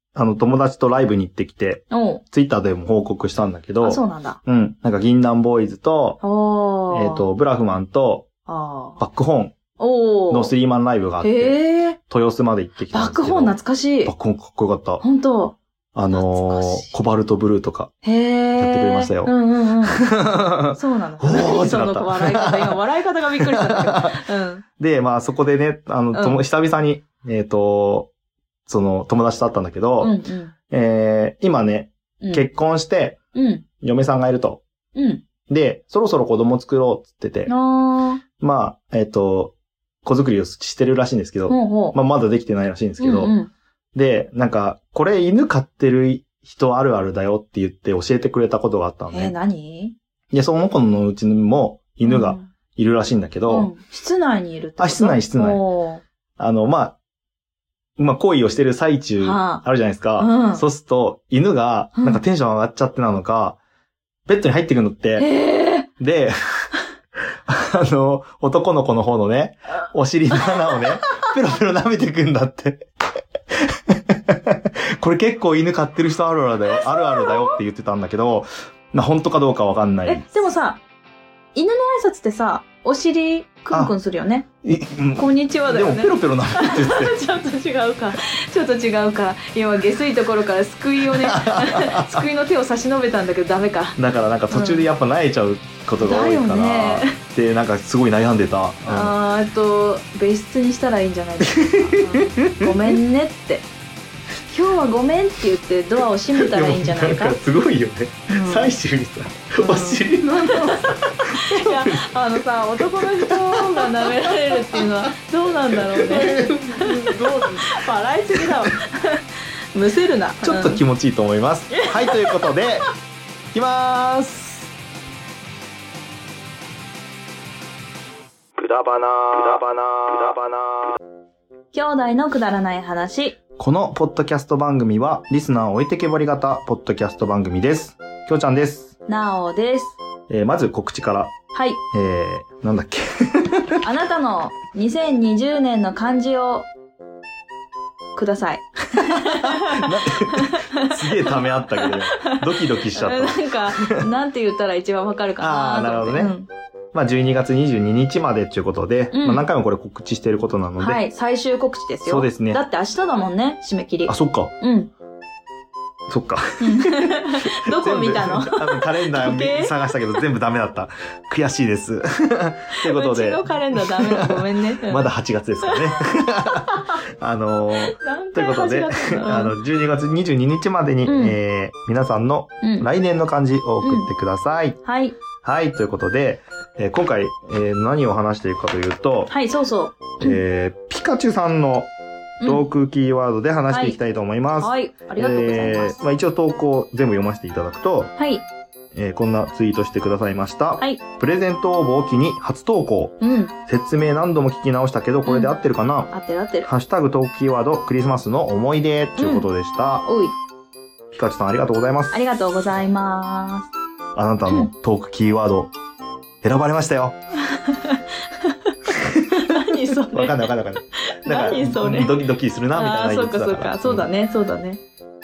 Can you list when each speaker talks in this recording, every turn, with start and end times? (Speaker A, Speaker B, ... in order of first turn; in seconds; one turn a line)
Speaker A: 0.1-6.2
Speaker B: 1.9-2.2
Speaker B: 3.8-4.4
Speaker B: 6.2-7.3
Speaker A: 6.9-8.3
Speaker B: 8.5-9.0
Speaker A: 9.0-9.6
Speaker B: 9.8-10.5
Speaker A: 10.3-15.0
Speaker B: 11.2-12.0
Speaker B: 12.9-14.1
Speaker B: 15.0-15.6
Speaker A: 15.9-17.9
Speaker B: 16.1-16.9
Speaker B: 18.0-24.6
Speaker A: 18.6-19.3
Speaker A: 19.9-22.8
Speaker A: 23.4-24.2
Speaker A: 24.8-28.1
Speaker B: 26.1-26.4
Speaker A: 28.7-30.2
Speaker B: 30.0-30.5
Speaker A: 30.7-33.2
Speaker B: 32.2-32.5
Speaker B: 33.3-33.6
Speaker A: 33.8-34.6
Speaker B: 34.9-35.2
Speaker A: 35.5-37.5
Speaker B: 37.5-38.2
Speaker A: 38.4-43.3
Speaker B: 41.5-42.0
Speaker B: 43.0-43.5
Speaker A: 43.9-49.3
Speaker B: 49.1-49.9
Speaker A: 50.3-53.7
Speaker B: 52.0-52.5
Speaker B: 53.5-56.0
Speaker A: 54.8-55.6
Speaker A: 56.4-57.0
Speaker A: 58.0-63.6
Speaker B: 59.2-59.6
Speaker B: 60.2-60.6
Speaker B: 62.0-62.2
Speaker A: 64.3-65.3
Speaker B: 65.2-65.9
Speaker A: 66.0-66.7
Speaker A: 67.5-72.9
Speaker A: 73.5-80.3
Speaker B: 76.7-77.6
Speaker B: 80.0-80.8
Speaker B: 81.5-84.5
Speaker A: 84.6-87.2
Speaker B: 85.2-94.0
Speaker A: 91.1-92.3
Speaker A: 94.0-99.2
Speaker B: 94.5-94.9
Speaker B: 96.0-97.2
Speaker B: 98.9-103.7
Speaker A: 101.6-102.9
Speaker B: 104.5-107.4
Speaker A: 106.3-112.0
Speaker B: 108.3-108.8
Speaker B: 109.6-120.8
Speaker A: 112.8-114.9
Speaker A: 115.7-117.8
Speaker A: 118.3-118.7
Speaker A: 120.4-122.9
Speaker B: 121.7-122.6
Speaker A: 123.5-124.7
Speaker A: 128.6-130.9
Speaker B: 131.7-133.4
Speaker A: 133.6-138.9
Speaker B: 139.1-140.0
Speaker A: 140.3-141.3
Speaker B: 141.5-141.8
Speaker A: 141.9-143.8
Speaker B: 143.8-146.7
Speaker B: 148.2-152.4
Speaker A: 149.0-154.0
Speaker B: 152.9-156.5
Speaker A: 155.4-156.3
Speaker A: 156.9-161.0
Speaker B: 159.1-159.5
Speaker B: 160.8-164.9
Speaker A: 162.0-162.6
Speaker A: 164.1-164.5
Speaker A: 166.1-184.8
Speaker B: 166.6-169.9
Speaker B: 172.8-175.1
Speaker B: 175.6-177.0
Speaker B: 177.8-179.5
Speaker B: 181.0-181.3
Speaker B: 182.6-182.9
Speaker B: 183.8-184.1
Speaker B: 184.8-185.2
Speaker A: 185.4-189.3
Speaker B: 189.3-190.4
Speaker A: 190.2-191.9
Speaker B: 192.4-192.7
Speaker A: 192.4-198.1
Speaker B: 193.7-194.0
Speaker B: 194.6-196.0
Speaker B: 198.2-198.4
Speaker A: 198.9-206.1
Speaker B: 203.2-203.5
Speaker B: 205.2-206.7
Speaker A: 206.7-210.1
Speaker B: 209.2-209.5
Speaker B: 210.0-210.3
Speaker A: 211.1-212.1
Speaker B: 212.1-213.7
Speaker A: 214.1-215.7
Speaker A: 216.4-217.2
Speaker B: 217.4-224.8
Speaker A: 219.1-224.1